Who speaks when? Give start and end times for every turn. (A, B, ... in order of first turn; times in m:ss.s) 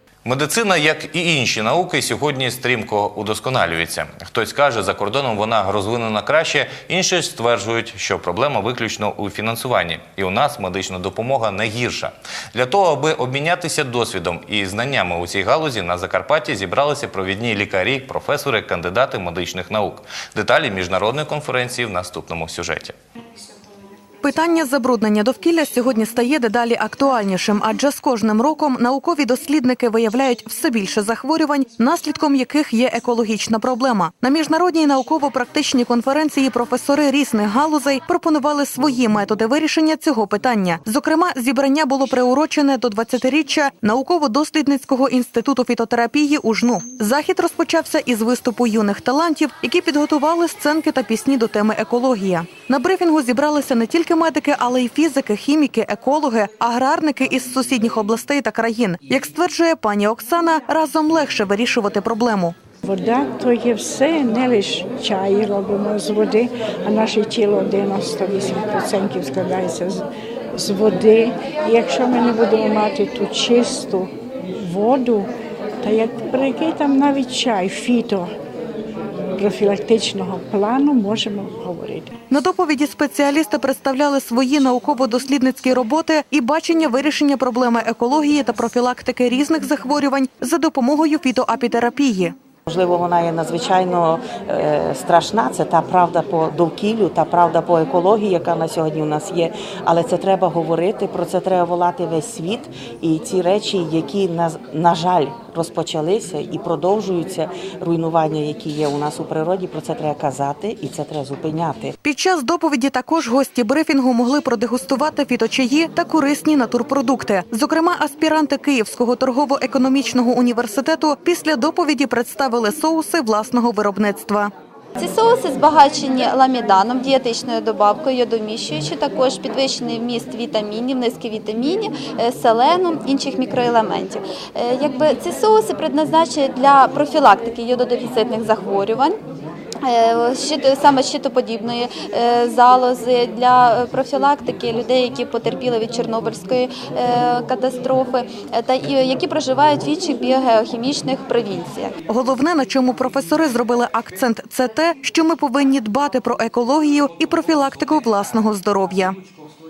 0:00.2-0:22.9 A
0:24.2-1:02.5 B
1:02.8-1:15.3 C
1:15.8-1:18.3 C
1:19.4-1:22.1 C
1:22.3-1:32.3 B
1:32.6-1:51.9 D
1:52.0-2:04.5 B
2:05.0-2:19.2 E
2:19.8-2:32.0 E
2:32.1-2:39.2 B